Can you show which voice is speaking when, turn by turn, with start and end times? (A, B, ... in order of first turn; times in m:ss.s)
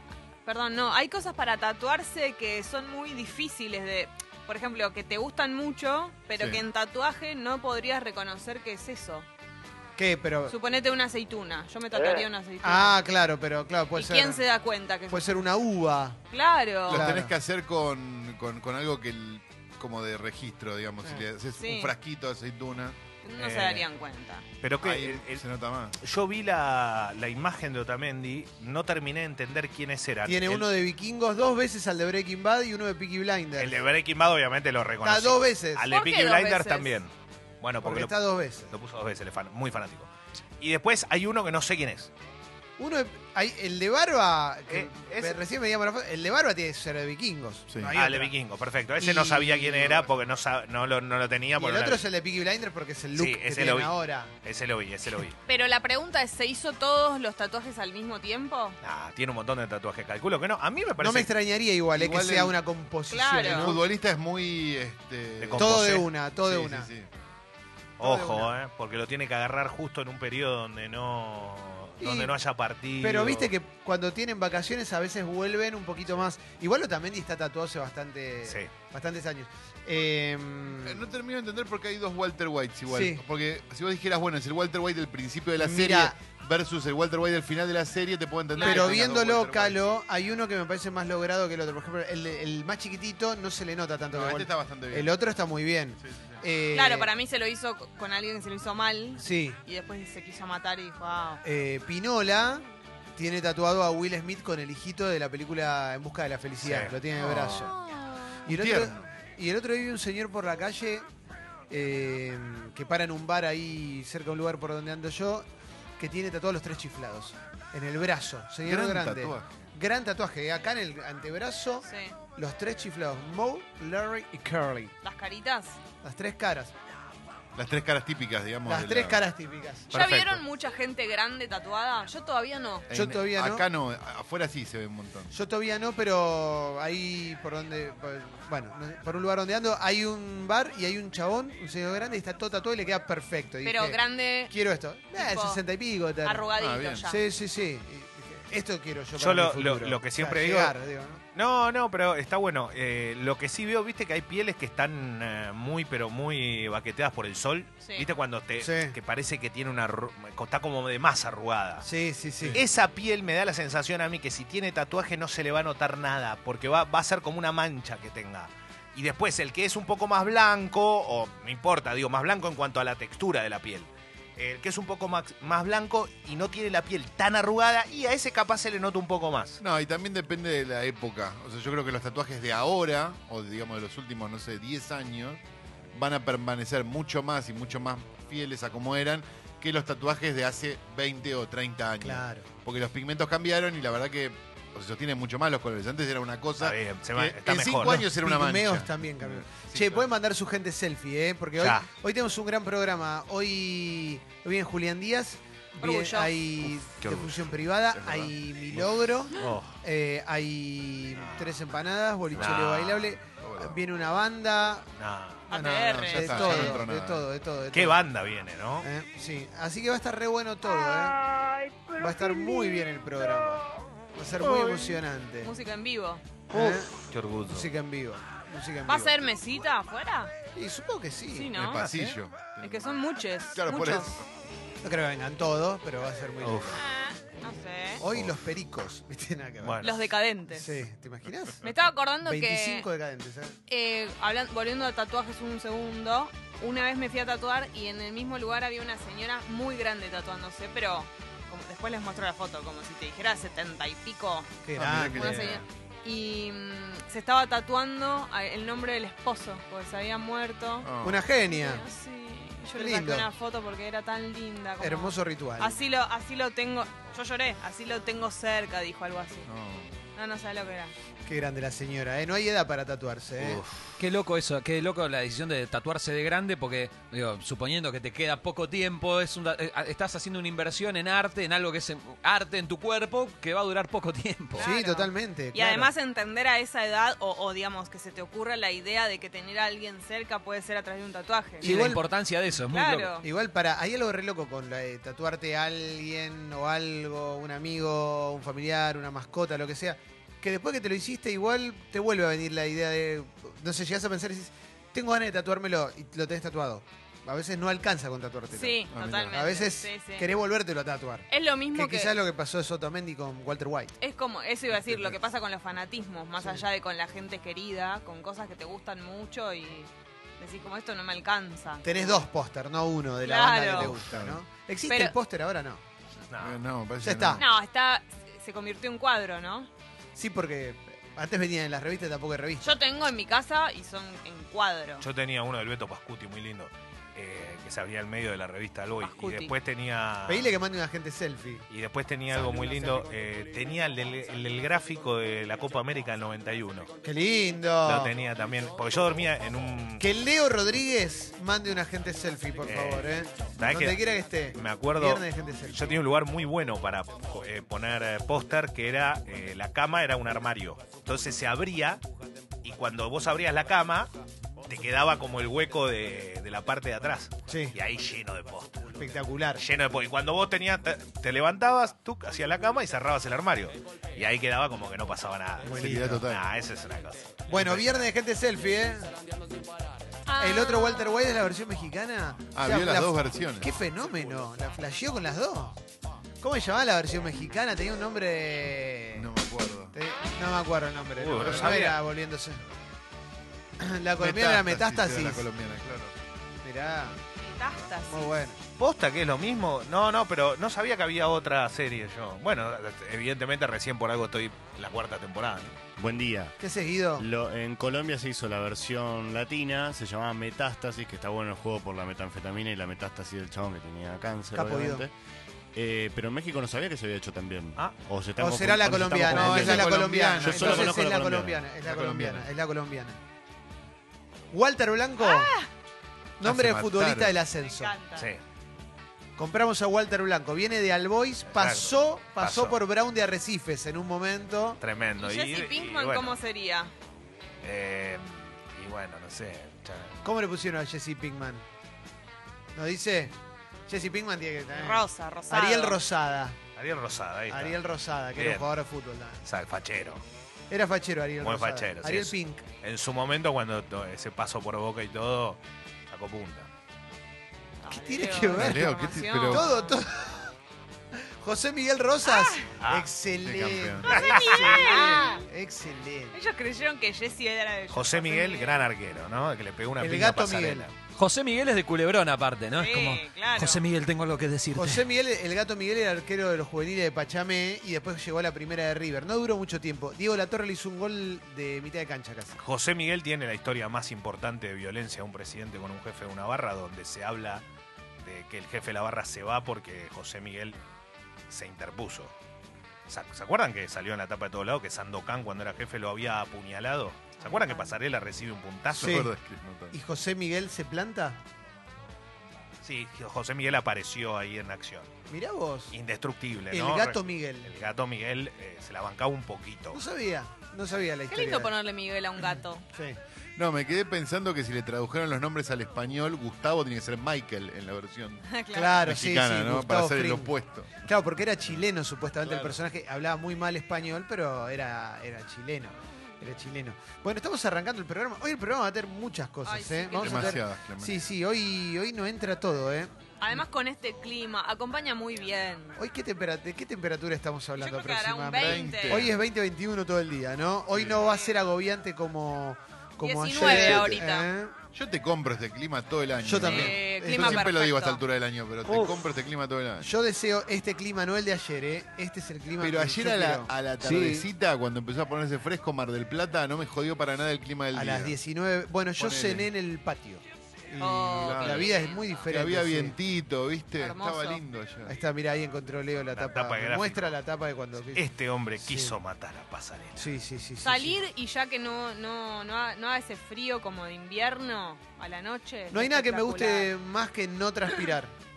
0:00.4-0:09.3 A
0:06.4-0:06.6 B
0:10.0-0:10.5 C
0:10.5-0:13.0 A
0:12.6-0:14.4 C
0:13.9-0:15.2 A
0:15.1-0:16.2 C
0:16.3-0:17.0 A
0:16.9-0:23.0 B
0:16.9-0:17.3 C
0:21.6-0:21.9 A
0:23.2-0:24.4 A
0:23.4-0:23.8 D
0:24.6-0:25.4 D
0:24.8-0:26.0 B
0:26.0-0:30.7 D
0:30.2-0:33.8 C
0:33.6-0:38.2 D
0:35.0-0:35.9 C
0:35.9-0:37.0 A
0:37.8-0:38.7 C
0:38.7-0:42.1 D
0:42.8-0:48.3 C
0:44.7-0:45.4 D
0:47.9-0:52.0 D
0:49.0-0:50.1 C
0:51.6-0:54.3 C
0:53.1-0:55.4 D
0:55.4-0:58.8 A
0:58.8-1:01.3 D
1:01.0-1:03.8 C
1:01.9-1:02.6 B
1:03.1-1:03.7 A
1:03.4-1:07.1 B
1:05.4-1:06.1 D
1:05.6-1:06.9 C
1:08.0-1:13.5 D
1:08.0-1:08.5 C
1:12.0-1:12.3 C
1:13.0-1:21.0 C
1:18.4-1:18.7 D
1:20.8-1:29.9 B
1:22.9-1:23.2 C
1:25.6-1:26.1 C
1:28.6-1:28.9 A
1:28.6-1:37.1 C
1:34.1-1:35.2 B
1:36.0-1:36.4 B
1:36.7-1:41.4 A
1:39.2-1:39.6 C
1:41.4-1:42.6 C
1:43.2-1:47.7 C
1:46.6-1:47.3 D
1:47.1-1:47.7 B
1:47.7-1:48.4 A
1:48.4-1:51.0 C
1:48.4-1:49.1 B
1:51.7-1:55.4 C
1:56.0-2:04.9 C
1:58.6-1:59.6 B
2:01.8-2:02.2 A
2:05.0-2:05.8 A
2:06.0-2:06.7 C
2:07.5-2:09.2 B
2:08.6-2:09.9 C
2:09.9-2:12.9 A
2:09.9-2:10.4 D
2:12.9-2:15.3 B
2:12.9-2:13.6 C
2:15.3-2:24.0 C
2:23.6-2:24.5 A
2:24.5-2:26.5 C
2:25.1-2:25.6 A
2:26.2-2:27.2 A
2:26.6-2:27.1 B
2:27.1-2:31.2 C
2:29.2-2:30.7 D
2:31.3-2:41.9 D
2:38.6-2:39.0 C
2:41.8-2:42.6 C
2:42.5-2:59.6 D
2:59.6-3:05.4 B
3:05.9-3:20.1 B
3:12.0-3:12.4 C
3:16.6-3:18.0 D
3:17.8-3:34.9 C
3:21.6-3:21.8 D
3:25.8-3:26.3 A
3:26.7-3:29.1 B
3:29.3-3:29.8 D
3:31.1-3:31.6 D
3:32.3-3:33.2 D
3:33.4-3:33.8 B
3:35.0-3:35.4 D
3:35.5-3:36.8 A
3:35.5-3:38.1 C
3:35.6-3:37.3 B
3:37.7-3:38.9 D
3:38.8-3:41.2 C
3:42.0-3:45.5 C
3:45.4-3:46.2 A
3:46.5-3:47.7 D
3:46.5-3:46.9 C
3:47.5-3:49.3 C
3:48.8-3:50.3 A
3:50.5-3:51.6 C
3:51.3-3:51.8 A
3:51.5-3:54.2 B
3:51.7-3:52.2 D
3:52.6-3:54.2 A
3:54.8-3:56.8 C
3:56.4-3:56.8 D
3:56.8-3:58.0 A
3:58.0-3:59.8 C
3:59.6-4:00.0 D
3:59.8-4:00.7 A
4:00.5-4:01.6 C
4:01.6-4:02.9 A
4:02.2-4:03.6 C
4:03.7-4:20.9 A
4:14.6-4:15.4 C
4:14.7-4:15.6 B
4:20.8-4:21.3 B
4:21.0-4:21.8 C
4:21.4-4:29.5 A
4:22.8-4:23.3 C
4:24.8-4:25.8 C
4:29.4-4:29.9 B
4:30.1-4:30.9 A
4:31.2-4:33.6 C
4:33.4-4:33.8 D
4:34.0-4:44.7 E
4:44.5-4:45.9 C
4:44.5-4:51.7 A
4:51.6-4:52.0 C
4:51.6-4:53.2 E
4:52.7-4:53.2 A
4:53.2-5:08.8 C
5:08.5-5:10.3 A
5:08.9-5:09.5 B
5:09.3-5:13.9 C
5:11.3-5:12.1 A
5:14.0-5:22.2 A
5:16.4-5:16.6 C
5:21.8-5:25.8 C
5:23.2-5:23.9 A
5:23.7-5:24.4 B
5:24.8-5:25.1 A
5:26.3-5:26.6 D
5:26.4-5:27.4 B
5:27.0-5:27.4 C
5:27.3-5:29.7 A
5:30.1-5:32.8 C
5:32.6-5:35.0 A
5:35.0-5:40.5 D
5:39.0-5:39.5 A
5:40.2-5:41.6 C
5:41.7-5:46.9 D
5:42.4-5:42.8 C
5:47.0-5:48.1 C
5:47.8-5:50.0 D
5:50.0-5:55.9 C
5:52.6-5:54.0 D
5:54.5-6:02.0 D
6:02.6-6:04.1 D
6:04.6-6:18.1 D
6:07.5-6:07.8 C
6:09.0-6:09.6 C
6:15.6-6:16.2 C
6:15.7-6:16.4 B
6:17.5-6:19.1 C
6:20.2-6:21.2 A
6:20.4-6:25.8 C
6:22.5-6:23.7 B
6:26.4-6:29.3 C
6:29.1-6:30.0 B
6:29.9-6:32.6 C
6:31.2-6:32.0 D
6:31.4-6:31.8 B
6:33.8-6:35.4 C
6:34.2-6:36.1 B
6:36.6-6:37.2 C
6:37.4-6:38.3 A
6:38.1-6:38.6 C
6:38.8-6:45.8 D
6:46.0-6:46.5 F
6:46.6-6:47.2 C
6:47.2-6:55.1 F
6:54.5-6:55.0 C
6:55.7-7:01.6 F
6:58.4-7:03.2 C
6:59.3-7:01.0 B
7:01.8-7:02.5 B
7:04.5-7:05.5 C
7:05.2-7:05.7 A
7:06.4-7:07.9 C
7:06.4-7:07.4 B
7:07.6-7:08.3 A
7:09.4-7:14.8 C
7:11.4-7:12.8 D
7:14.8-7:16.4 D
7:15.2-7:16.9 A
7:17.6-7:20.2 D
7:20.2-7:21.6 C
7:22.7-7:23.3 C
7:23.9-7:26.6 C
7:24.7-7:26.0 A
7:26.8-7:27.8 D
7:27.5-7:29.4 C
7:28.3-7:28.7 D
7:29.4-7:30.2 D
7:30.7-7:32.6 C
7:31.4-7:36.7 D
7:37.8-7:39.9 A
7:37.9-7:38.8 C
7:38.5-7:39.6 B
7:39.5-7:40.5 C
7:41.1-7:46.4 C
7:42.2-7:42.7 A
7:42.8-7:43.1 D
7:43.4-7:44.2 B
7:44.1-7:45.4 A
7:44.2-7:44.9 D
7:46.3-7:48.8 A
7:47.9-7:50.9 D
7:50.0-7:50.9 C
7:51.2-7:55.0 E
7:52.7-7:53.8 A
7:54.7-8:02.6 C
8:02.6-8:07.6 D
8:08.2-8:10.8 D
8:11.5-8:12.3 D
8:13.1-8:19.3 D
8:17.4-8:18.0 A
8:18.9-8:20.0 B
8:19.0-8:19.3 C
8:19.9-8:21.4 C
8:22.8-8:25.1 D
8:25.3-8:25.9 C
8:25.9-8:30.0 D
8:26.7-8:27.7 C
8:29.9-8:31.7 C
8:31.3-8:32.8 A
8:32.4-8:33.2 C
8:33.6-8:38.4 B
8:38.5-8:39.0 A
8:38.7-8:53.6 C
8:39.0-8:41.1 B
8:42.4-8:42.8 B
8:49.6-8:50.6 A
8:50.2-8:51.2 B
8:53.4-8:56.0 A
8:56.0-9:04.8 C
8:57.8-8:59.3 A
8:58.5-8:59.4 B
9:01.2-9:01.5 A
9:03.2-9:04.5 A
9:03.6-9:04.2 B
9:04.9-9:10.1 B
9:06.4-9:07.7 C
9:06.6-9:08.2 A
9:10.0-9:14.5 C
9:12.8-9:18.4 B
9:17.9-9:23.1 C
9:19.2-9:19.7 B
9:21.0-9:22.4 A
9:21.4-9:21.9 B
9:22.5-9:25.2 B
9:24.0-9:24.6 A
9:25.1-9:28.2 C
9:26.3-9:27.4 D
9:28.1-9:30.4 D
9:28.8-9:29.2 C
9:30.2-9:31.2 C
9:30.8-9:36.9 A
9:35.9-9:38.3 C